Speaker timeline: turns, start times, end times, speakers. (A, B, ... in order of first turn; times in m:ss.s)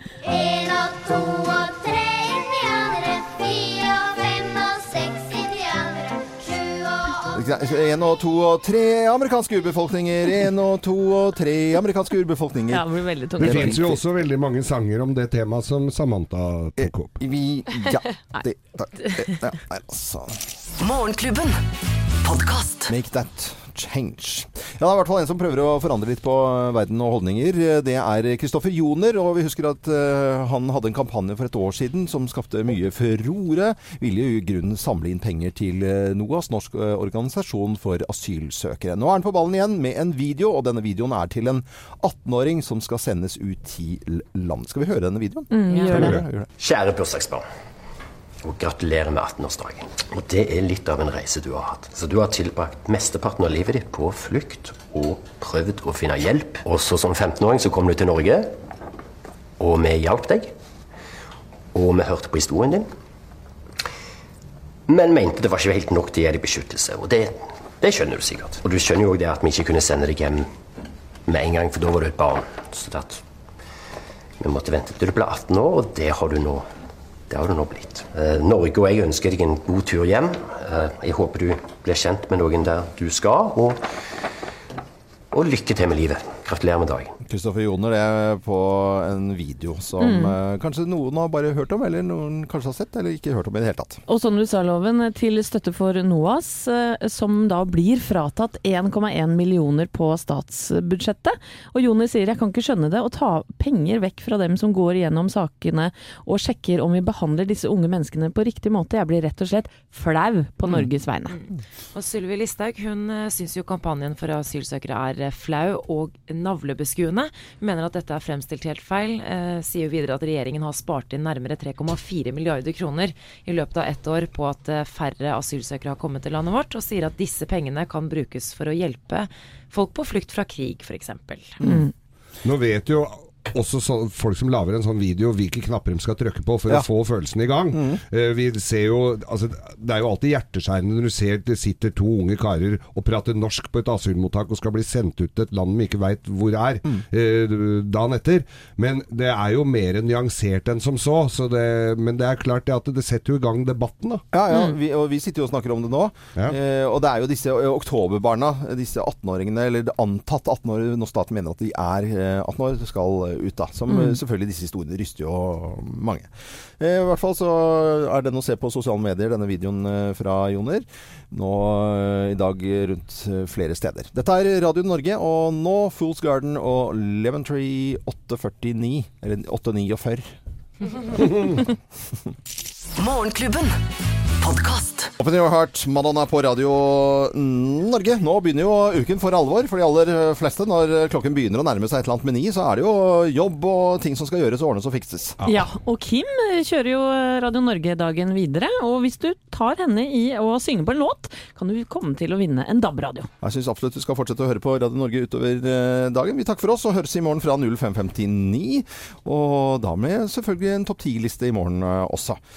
0:00.2-0:07.6 A
0:07.3-0:14.0 B
0:12.7-0:13.9 C
0:13.4-0:17.1 D
0:16.8-0:20.5 B
0:20.8-0:21.6 E
0:22.2-0:22.9 E
0:22.9-0:46.5 B
0:45.5-0:46.2 C
0:45.7-0:46.1 F
0:45.9-0:46.2 D
0:46.6-0:47.4 G
0:48.4-0:58.5 G
0:59.6-1:00.5 G
1:01.7-1:02.9 G
1:04.9-1:10.5 G
1:11.3-1:13.2 G
1:14.4-1:16.7 G
1:17.3-1:23.8 G
1:25.3-1:27.1 G
1:27.2-1:34.0 B
1:30.0-1:30.4 C
1:34.1-1:51.4 C
1:51.3-2:11.6 F
2:11.6-2:11.9 C
2:12.4-2:34.2 D
2:17.7-2:18.0 B
2:34.3-3:00.3 B
2:43.9-2:44.2 C
3:01.2-3:01.4 D
3:03.0-3:03.8 E
3:04.4-3:05.1 E
3:05.2-3:15.4 B
3:15.5-3:23.3 C
3:23.4-3:32.4 B